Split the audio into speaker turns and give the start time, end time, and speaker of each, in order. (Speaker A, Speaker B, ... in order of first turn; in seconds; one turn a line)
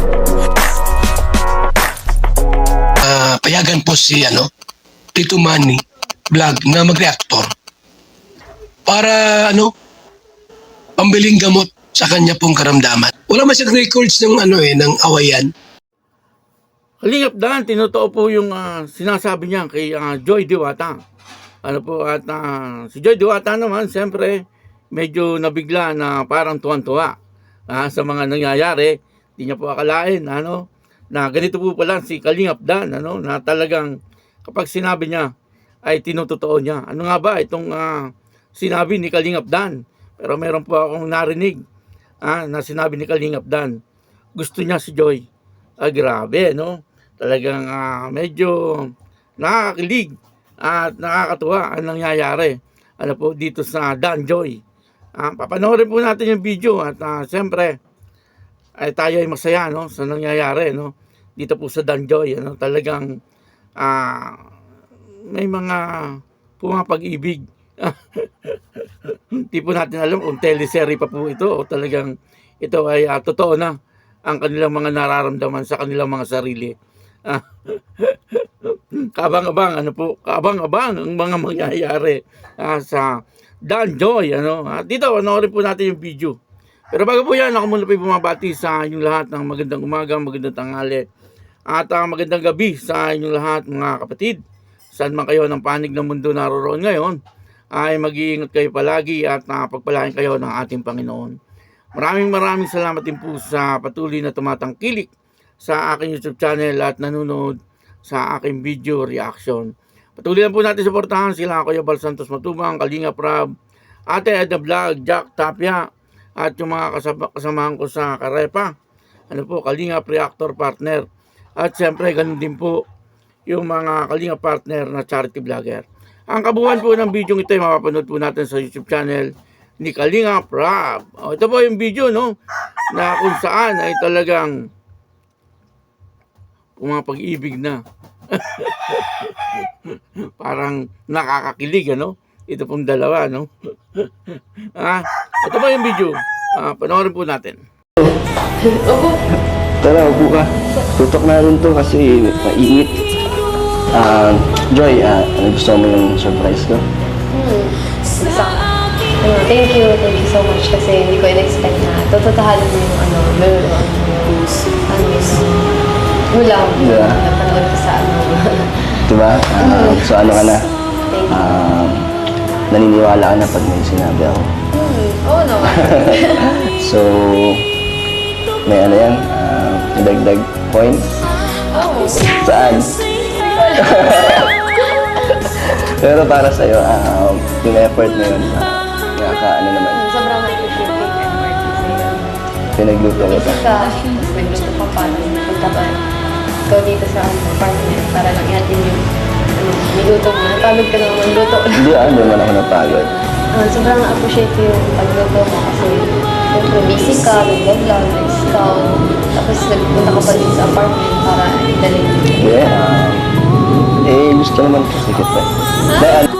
Speaker A: 3.0-4.5
Speaker A: 5.2-7.5
Speaker A: 8.8-9.7
Speaker A: 11.0-15.5
Speaker B: 17.0-21.0
Speaker B: 21.6-24.4
Speaker B: 24.9-27.1
Speaker B: 27.7-35.3
Speaker B: 35.9-41.6
Speaker B: 42.2-43.8
Speaker B: 44.3-45.2
Speaker B: 45.8-54.6
Speaker B: 55.2-57.8
Speaker B: 58.8-63.1
Speaker B: 63.8-64.4
Speaker B: 65.3-73.7
Speaker B: 74.3-76.7
Speaker B: 77.3-83.1
Speaker B: 83.7-86.3
Speaker B: 86.9-91.0
Speaker B: 91.7-94.4
Speaker B: 94.9-97.2
Speaker B: 97.7-101.3
Speaker B: 101.9-105.1
Speaker B: 105.6-113.5
Speaker B: 114.1-115.8
Speaker B: 116.4-118.7
Speaker B: 119.3-121.0
Speaker B: 121.6-122.8
Speaker B: 123.5-129.3
Speaker B: 129.8-132.3
Speaker B: 132.9-134.5
Speaker B: 136.8-137.8
Speaker B: 138.3-147.6
Speaker C: 148.6-149.2
Speaker D: 149.8-153.0
Speaker D: 153.9-156.8
Speaker C: 157.3-165.7
Speaker C: 166.3-168.7
Speaker D: 166.8-167.2
Speaker D: 169.1-170.6
Speaker C: 169.6-170.1
Speaker C: 171.1-171.6
Speaker D: 171.3-172.1
Speaker D: 172.7-174.5
Speaker C: 174.7-176.5
Speaker D: 175.7-177.7
Speaker D: 178.7-181.1
Speaker C: 181.7-182.3
Speaker D: 182.3-183.0
Speaker C: 183.2-185.6
Speaker D: 183.8-184.4
Speaker D: 185.7-190.0
Speaker C: 189.9-192.3
Speaker D: 192.8-193.7
Speaker C: 193.1-196.0
Speaker C: 196.7-199.0
Speaker C: 199.6-202.3
Speaker D: 201.7-203.1
Speaker C: 203.5-212.4
Speaker D: 212.4-213.3
Speaker D: 214.0-216.2
Speaker C: 215.9-216.2